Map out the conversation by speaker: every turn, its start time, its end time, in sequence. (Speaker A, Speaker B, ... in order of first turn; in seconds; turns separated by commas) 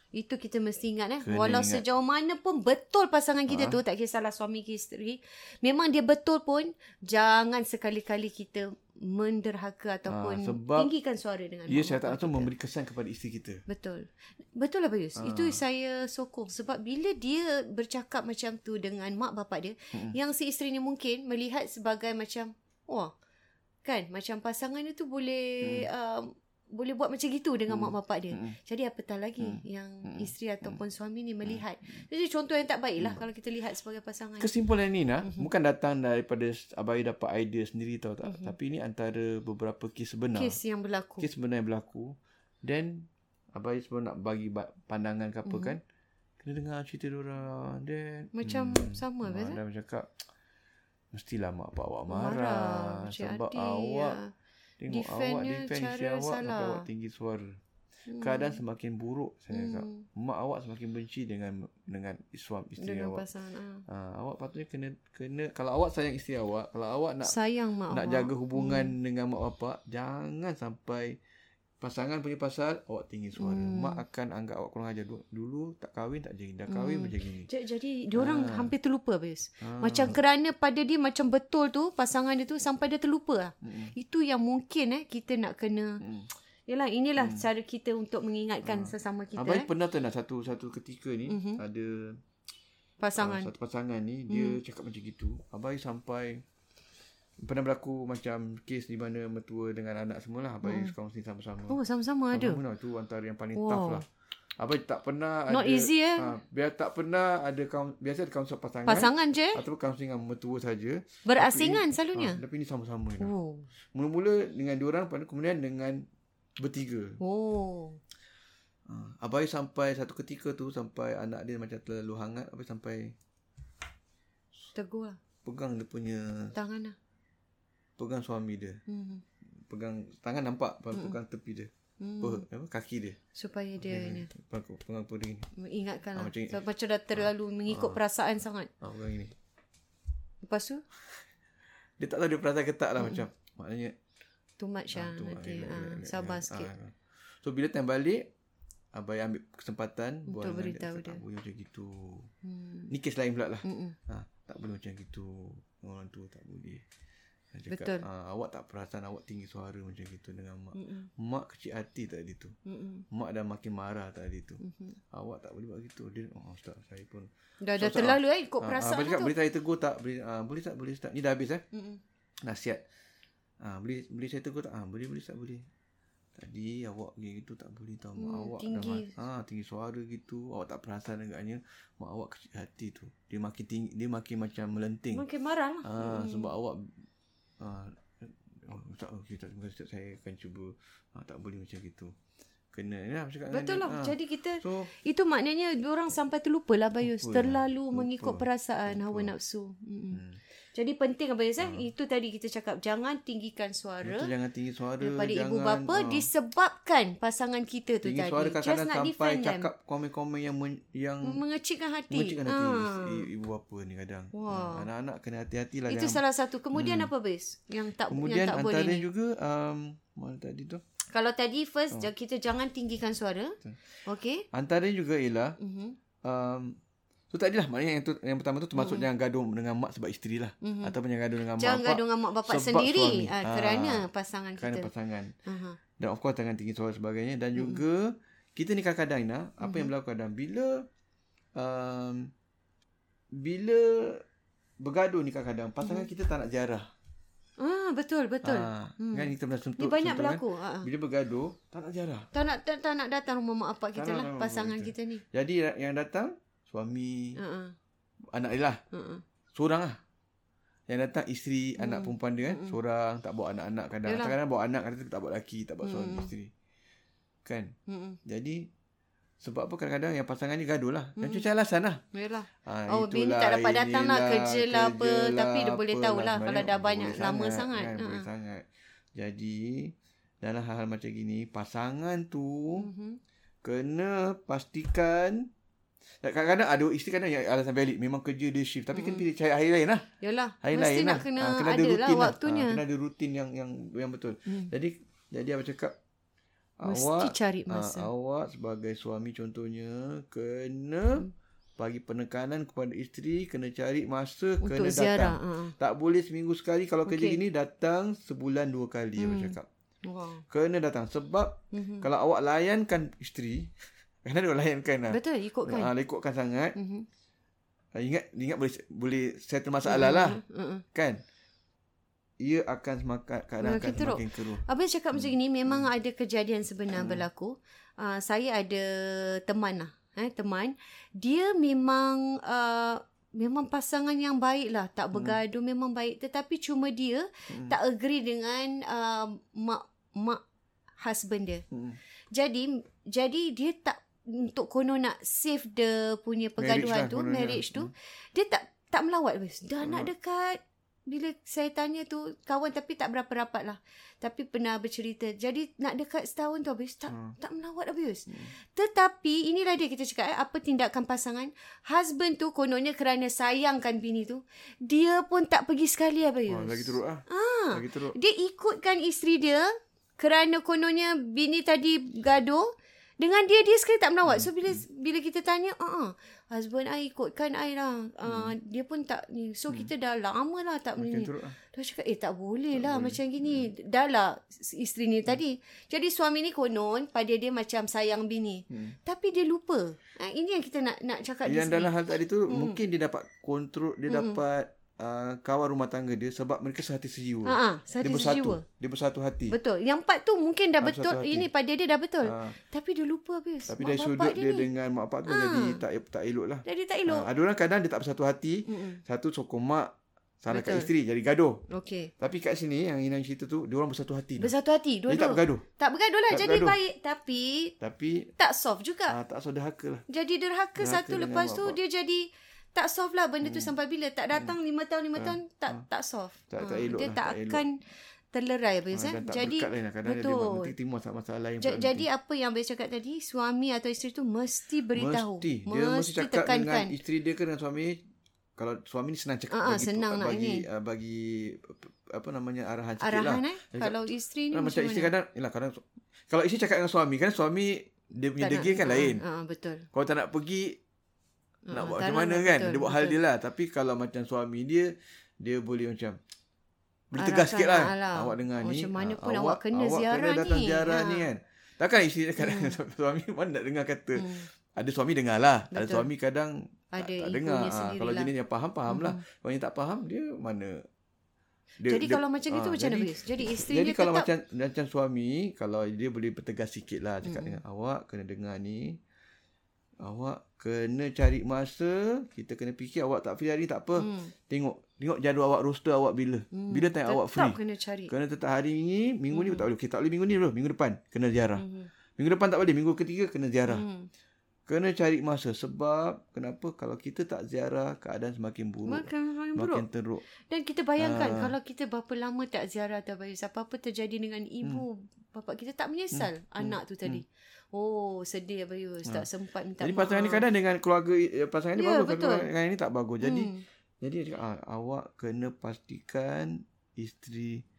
Speaker A: 0.1-12.5, Speaker B: 1.2-1.8, Speaker B: 3.5-3.8, Speaker B: 10.1-10.9, Speaker B: 11.7-13.6, Speaker A: 13.7-23.1, Speaker B: 15.2-15.6, Speaker A: 23.8-34.5, Speaker B: 25.6-25.9, Speaker B: 27.7-28.6, Speaker B: 29.4-30.8, Speaker B: 34.4-40.6, Speaker A: 35.2-35.5, Speaker A: 38.2-38.5, Speaker A: 40.3-41.3, Speaker B: 41.2-45.8, Speaker A: 45.5-45.8, Speaker B: 46.4-50.2, Speaker A: 48.3-49.6, Speaker B: 51.1-54.2, Speaker A: 52.1-54.3, Speaker B: 54.8-57.6, Speaker A: 54.9-56.9, Speaker A: 58.1-58.6, Speaker B: 58.2-63.2, Speaker A: 59.5-60.1, Speaker A: 62.8-63.8, Speaker B: 63.9-67.3, Speaker A: 67.2-69.0, Speaker B: 67.9-71.2, Speaker B: 71.8-77.5, Speaker A: 73.4-74.0, Speaker A: 76.7-86.0, Speaker B: 78.2-78.7, Speaker B: 79.6-80.2, Speaker B: 83.6-83.9, Speaker B: 86.0-86.3, Speaker A: 86.7-89.7, Speaker B: 87.2-87.5, Speaker B: 88.6-92.2, Speaker A: 91.3-91.6, Speaker A: 93.0-93.5, Speaker B: 93.2-96.4, Speaker A: 94.3-94.6, Speaker B: 97.4-101.8, Speaker A: 100.6-100.9, Speaker A: 101.7-102.6, Speaker B: 102.3-104.0, Speaker A: 103.5-104.0, Speaker B: 104.6-113.3, Speaker A: 105.5-106.3, Speaker A: 108.9-109.6, Speaker A: 111.3-112.4, Speaker A: 113.2-113.7, Speaker B: 113.9-116.1, Speaker B: 116.6-117.2, Speaker A: 117.2-118.0, Speaker B: 118.9-123.2, Speaker A: 124.8-125.2, Speaker B: 125.5-126.5, Speaker A: 126.5-127.0, Speaker B: 128.0-128.8, Speaker A: 128.9-129.2, Speaker B: 129.6-131.7, Speaker A: 132.0-132.4, Speaker B: 132.2-133.2, Speaker A: 133.3-134.3, Speaker B: 133.8-135.5, Speaker A: 135.6-138.7, Speaker B: 136.2-136.6, Speaker B: 137.1-138.0, Speaker B: 138.8-139.3, Speaker A: 140.4-140.8, Speaker B: 142.0-143.9, Speaker A: 143.0-143.2, Speaker A: 144.6-146.7, Speaker B: 144.9-148.3, Speaker B: 148.9-152.3, Speaker A: 150.3-151.2, Speaker A: 152.4-152.9, Speaker B: 152.9-156.8, Speaker A: 153.6-154.0, Speaker B: 157.5-162.6, Speaker A: 157.7-158.1, Speaker A: 160.8-161.1, Speaker A: 162.7-163.1, Speaker B: 163.1-171.6, Speaker A: 164.6-165.0, Speaker A: 167.6-169.3, Speaker A: 171.7-172.0, Speaker B: 172.4-172.8, Speaker B: 173.6-175.7, Speaker B: 176.4-185.2, Speaker A: 178.2-179.2, Speaker A: 185.1-186.5, Speaker B: 185.8-186.9, Speaker B: 187.6-192.1, Speaker B: 192.7-194.9, Speaker A: 193.5-200.2, Speaker B: 197.0-199.3, Speaker B: 200.1-200.4, Speaker A: 200.8-204.3, Speaker B: 201.6-201.9, Speaker B: 204.0-206.3, Speaker A: 205.0-209.7, Speaker B: 208.0-211.4, Speaker A: 211.2-213.3, Speaker B: 212.1-216.2, Speaker A: 214.3-214.9, Speaker A: 215.9-219.1, Speaker B: 216.7-217.1, Speaker B: 218.1-220.8, Speaker A: 221.1-224.5, Speaker B: 224.5-225.6, Speaker A: 225.6-226.0, Speaker B: 226.2-226.8, Speaker B: 227.3-235.3, Speaker A: 228.8-229.1, Speaker A: 230.6-230.9, Speaker A: 231.6-234.9, Speaker A: 235.5-235.8, Speaker B: 236.0-240.9, Speaker A: 237.6-237.8, Speaker A: 239.6-239.9, Speaker B: 241.6-242.3, Speaker B: 243.3-244.2, Speaker B: 244.8-246.9, Speaker A: 245.8-246.1, Speaker A: 247.6-250.9, Speaker B: 248.4-252.3, Speaker A: 252.3-255.2, Speaker B: 253.9-257.4, Speaker A: 257.4-257.8, Speaker B: 258.3-258.8, Speaker A: 258.9-259.2, Speaker B: 259.5-260.0, Speaker B: 260.9-266.5, Speaker A: 261.8-262.8, Speaker A: 264.1-264.4, Speaker A: 265.8-266.3, Speaker B: 267.4-268.7, Speaker A: 267.9-268.2, Speaker B: 269.4-272.0, Speaker A: 271.2-271.5, Speaker A: 272.1-278.3, Speaker B: 272.6-282.9, Speaker A: 282.8-283.2, Speaker B: 283.6-285.5, Speaker B: 286.2-290.1, Speaker A: 288.9-289.2, Speaker A: 290.2-292.8, Speaker B: 290.6-296.0, Speaker A: 294.5-294.7, Speaker B: 296.8-301.3, Speaker A: 296.9-298.1, Speaker B: 301.8-309.7, Speaker A: 304.6-305.7, Speaker A: 307.1-307.4, Speaker A: 309.2-310.4, Speaker B: 310.5-316.8, Speaker A: 311.7-312.1, Speaker A: 315.1-315.9, Speaker A: 316.8-317.1, Speaker B: 317.9-320.4, Speaker A: 319.9-320.8, Speaker B: 320.9-321.2, Speaker B: 322.4-324.6, Speaker A: 323.6-340.4, Speaker B: 325.1-325.9, Speaker B: 326.9-327.2, Speaker B: 335.1-335.4, Speaker B: 337.5-337.8, Speaker A: 341.0-341.6, Speaker B: 341.7-342.0, Speaker A: 342.3-391.9, Speaker B: 346.6-347.9, Speaker B: 349.8-350.1, Speaker B: 357.1-357.4, Speaker B: 366.5-368.2, Speaker B: 374.3-374.8, Speaker B: 378.3-378.5, Speaker B: 381.0-381.6, Speaker B: 382.7-383.7, Speaker B: 388.7-389.0, Speaker B: 391.4-399.6, Speaker A: 392.5-392.8, Speaker A: 394.1-394.4, Speaker A: 397.4-398.6, Speaker A: 399.5-404.7, Speaker B: 400.8-401.5, Speaker B: 402.2-402.6, Speaker B: 403.7-411.6, Speaker A: 405.3-405.8, Speaker A: 406.6-407.3, Speaker A: 408.7-409.0, Speaker A: 410.5-410.9, Speaker A: 411.7-412.1, Speaker B: 412.2-414.5, Speaker A: 414.4-417.8, Speaker B: 415.1-415.6, Speaker B: 416.3-416.8, Speaker B: 417.8-418.3, Speaker A: 418.4-419.2, Speaker B: 419.1-420.0, Speaker A: 420.1-427.8, Speaker B: 420.8-421.8, Speaker B: 423.4-423.7, Speaker B: 425.2-425.9, Speaker B: 426.5-427.6, Speaker A: 428.3-430.7, Speaker B: 428.9-432.1, Speaker A: 431.6-436.9, Speaker B: 434.9-438.0, Speaker B: 438.6-449.2, Speaker A: 439.5-440.7, Speaker A: 443.0-445.1, Speaker A: 448.4-449.9, Speaker B: 449.9-450.8, Speaker A: 451.7-453.2, Speaker B: 451.7-456.2, Speaker B: 457.1-470.8, Speaker A: 457.2-461.3, Speaker A: 462.4-462.8, Speaker A: 464.2-464.5, Speaker A: 465.7-466.1, Speaker A: 466.9-468.3, Speaker A: 468.9-469.2, Speaker B: 471.8-479.0, Speaker A: 471.9-474.3, Speaker A: 477.2-477.6, Speaker B: 480.0-487.6, Speaker A: 484.0-484.3, Speaker A: 486.5-488.1, Speaker B: 488.1-491.6, Speaker A: 489.3-489.7, Speaker A: 491.6-491.9, Speaker B: 492.2-493.9, Speaker A: 493.7-494.1, Speaker B: 494.7-500.2, Speaker A: 498.9-499.9, Speaker A: 500.5-510.4, Speaker B: 501.0-501.5, Speaker B: 506.1-507.2, Speaker B: 509.8-517.6, Speaker A: 511.8-512.5, Speaker A: 513.2-513.6